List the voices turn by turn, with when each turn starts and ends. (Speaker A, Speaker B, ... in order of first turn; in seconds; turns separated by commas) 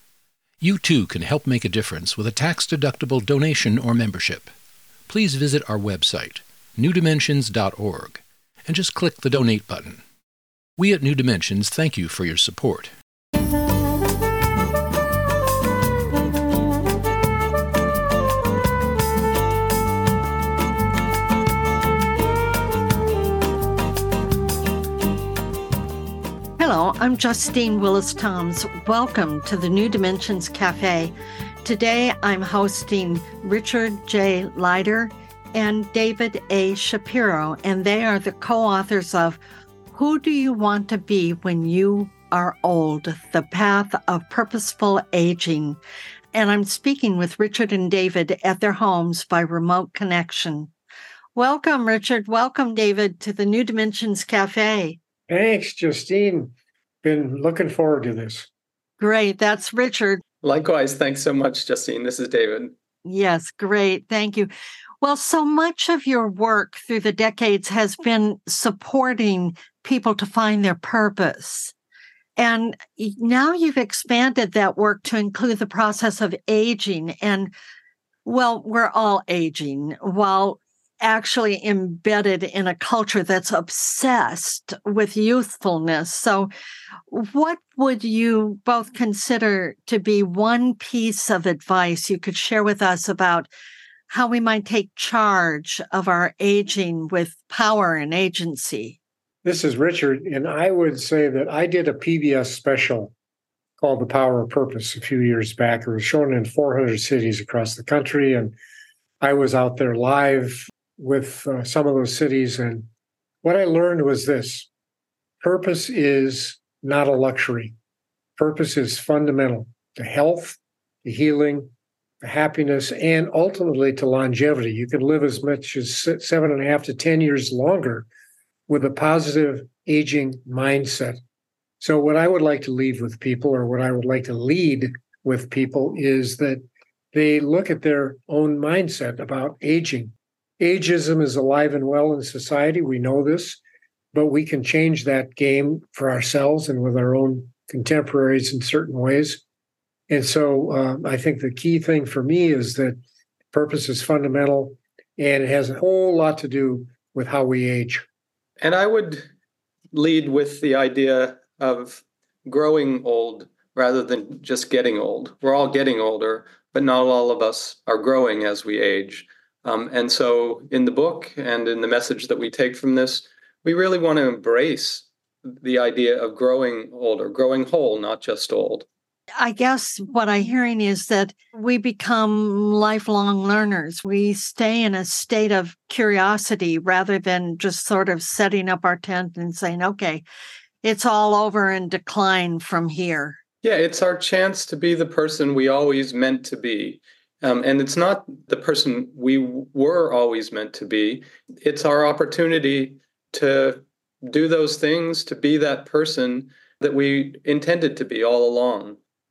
Speaker A: 0.6-4.5, Speaker A: 5.1-10.0, Speaker A: 10.8-12.9, Speaker B: 26.6-39.4, Speaker B: 39.9-45.8, Speaker B: 46.3-50.7, Speaker B: 51.4-55.0, Speaker C: 55.3-58.5, Speaker B: 59.0-60.2, Speaker D: 60.4-62.7, Speaker B: 63.0-64.5, Speaker B: 65.0-71.7, Speaker B: 72.4-77.5, Speaker B: 78.2-86.5, Speaker B: 87.1-93.5, Speaker B: 94.1-99.0, Speaker C: 99.4-103.1, Speaker C: 103.8-108.6, Speaker C: 109.2-112.9, Speaker C: 113.4-114.7, Speaker C: 115.4-117.8, Speaker C: 118.4-121.7, Speaker C: 122.2-128.1, Speaker C: 128.7-131.2, Speaker C: 131.8-136.6, Speaker C: 137.1-143.6, Speaker C: 144.1-149.4, Speaker C: 150.1-153.0, Speaker C: 153.5-158.1, Speaker D: 158.6-159.3, Speaker D: 159.9-178.9, Speaker B: 179.4-190.2, Speaker B: 190.8-193.4, Speaker D: 193.6-209.0